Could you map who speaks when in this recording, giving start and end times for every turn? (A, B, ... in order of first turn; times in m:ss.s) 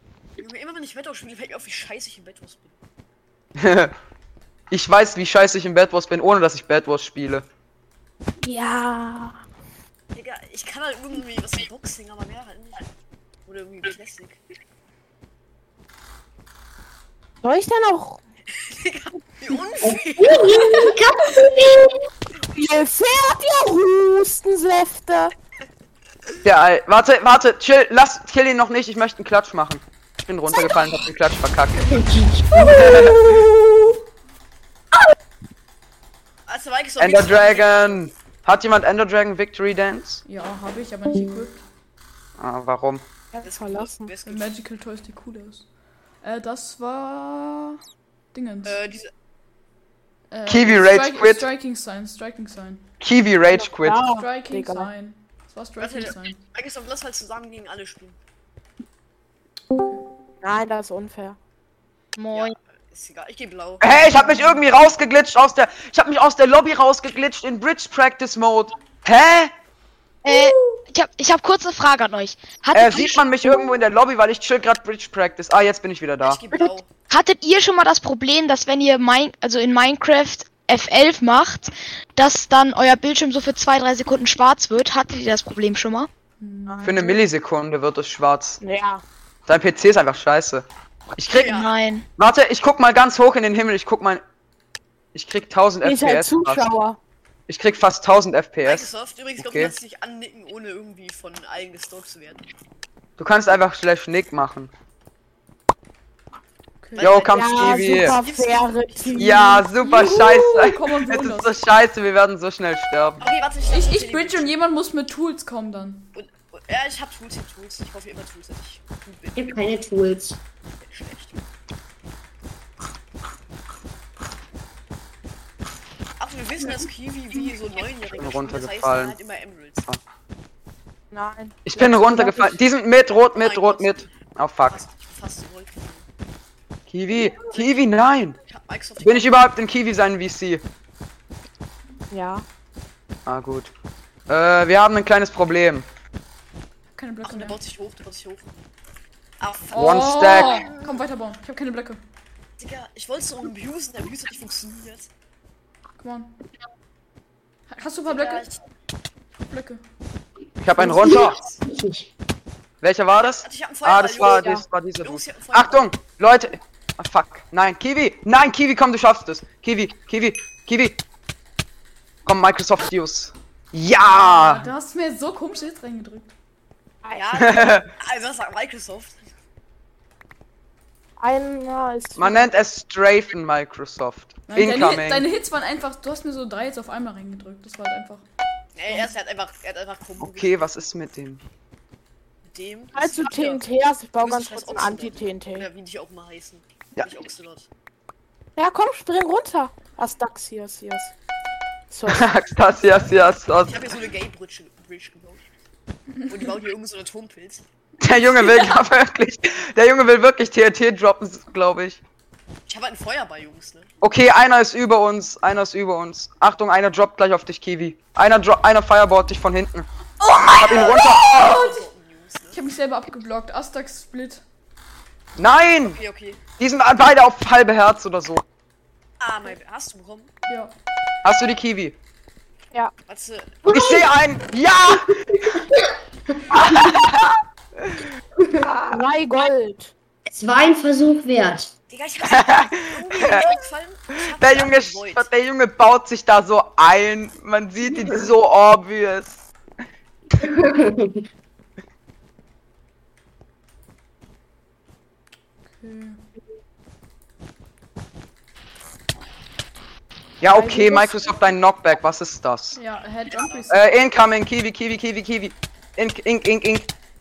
0:00.4-0:02.8 A
0:03.6-0:03.9 B
0:04.7-0:07.5 B
0:08.4-0:09.4 C
0:10.2-0:12.9 A
0:13.5-0:14.4 A
0:17.4-0:18.2 C
0:18.6-0:21.0 A
0:19.8-0:22.0 D
0:22.5-0:25.3 C
0:26.4-0:32.0 B
0:31.9-0:33.4 D
0:32.6-0:33.2 B
0:36.5-0:38.1 A
0:37.0-0:40.2 B
0:40.3-0:41.6 E
0:42.4-0:43.0 B
0:43.3-0:44.1 C
0:43.4-0:44.6 A
0:44.3-0:45.7 E
0:46.2-0:47.8 E
0:48.3-0:48.8 E
0:48.6-0:49.1 A
0:50.3-0:52.9 E
0:50.5-0:51.5 B
0:53.0-0:54.1 B
0:53.5-0:54.9 C
0:54.1-0:56.4 E
0:55.8-0:58.2 A
0:59.7-1:00.0 E
1:00.4-1:01.4 C
1:02.2-1:02.6 F
1:02.3-1:04.3 A
1:03.8-1:09.5 B
1:10.2-1:13.3 F
1:10.3-1:10.8 E
1:12.7-1:16.4 B
1:16.2-1:16.9 A
1:17.1-1:26.1 F
1:26.4-1:27.0 E
1:26.7-1:27.2 C
1:26.8-1:28.6 B
1:28.6-1:29.0 C
1:29.5-1:31.6 B
1:31.3-1:31.7 A
1:31.4-1:32.1 F
1:32.2-1:34.2 B
1:35.1-1:36.6 B
1:35.8-1:37.0 C
1:37.5-1:39.7 B
1:38.6-1:42.4 A
1:43.2-1:44.7 B
1:46.8-1:47.1 E
1:47.0-1:49.4 A
1:47.0-1:48.2 B
1:47.3-1:49.7 C
1:49.2-1:53.2 B
1:49.8-1:51.5 E
1:53.2-1:54.5 A
1:53.7-1:56.1 E
1:56.1-1:59.4 A
1:59.4-2:00.4 D
2:00.8-2:01.4 A
2:06.2-2:09.9 A
2:08.1-2:09.2 B
2:11.1-2:12.6 C
2:11.7-2:14.8 B
2:13.4-2:14.1 A
2:14.7-2:16.1 A
2:16.9-2:18.4 B
2:17.5-2:17.8 A
2:18.5-2:19.4 A
2:19.0-2:20.6 B
2:22.1-2:22.4 C
2:23.3-2:23.7 B
2:24.3-2:25.9 B
2:27.0-2:27.6 E
2:27.2-2:28.5 A
2:29.4-2:31.0 A
2:29.7-2:32.0 E
2:29.7-2:30.6 B
2:32.6-2:35.1 A
2:36.0-2:36.3 E
2:37.7-2:38.4 E
2:38.0-2:38.6 A
2:39.5-2:39.8 E
2:40.6-2:41.4 B
2:40.8-2:42.1 D
2:41.1-2:41.6 A
2:42.8-2:51.0 B
2:43.4-2:45.9 A
2:44.2-2:44.6 C
2:52.2-2:54.7 B
2:54.0-2:56.3 E
2:57.1-2:59.3 A
2:57.4-2:57.9 B
3:01.2-3:02.5 C
3:02.2-3:05.3 B
3:04.5-3:08.2 E
3:08.8-3:10.7 A
3:10.2-3:11.4 B
3:12.5-3:13.6 A
3:13.0-3:15.7 C
3:14.2-3:17.7 A
3:18.6-3:21.1 C
3:21.9-3:22.3 C
3:22.1-3:23.8 B
3:23.7-3:25.5 A
3:26.2-3:26.5 E
3:26.3-3:27.6 A
3:28.0-3:32.0 B
3:28.4-3:28.7 E
3:32.7-3:33.9 A
3:34.0-3:39.9 B
3:40.2-3:41.8 E
3:40.6-3:41.7 B
3:40.6-3:42.7 A
3:42.5-3:44.4 E
3:45.4-3:46.0 B
3:45.8-3:46.4 A
3:46.6-3:48.4 B
3:49.2-3:50.3 A
3:50.5-3:50.7 E
3:51.2-3:52.0 B
3:53.1-3:53.6 A
3:53.6-3:54.1 D
3:53.7-3:55.6 B
3:55.4-3:56.9 D
3:56.5-3:58.1 B
3:58.4-3:58.7 D
3:58.6-3:59.0 B
3:58.8-3:59.9 C
4:00.3-4:01.7 D
4:01.9-4:05.3 A
4:02.3-4:03.5 B
4:04.2-4:09.4 B
4:10.4-4:11.2 D
4:15.8-4:16.2 E
4:20.4-4:22.8 B
4:20.5-4:21.4 C
4:22.8-4:23.9 E
4:23.7-4:26.9 B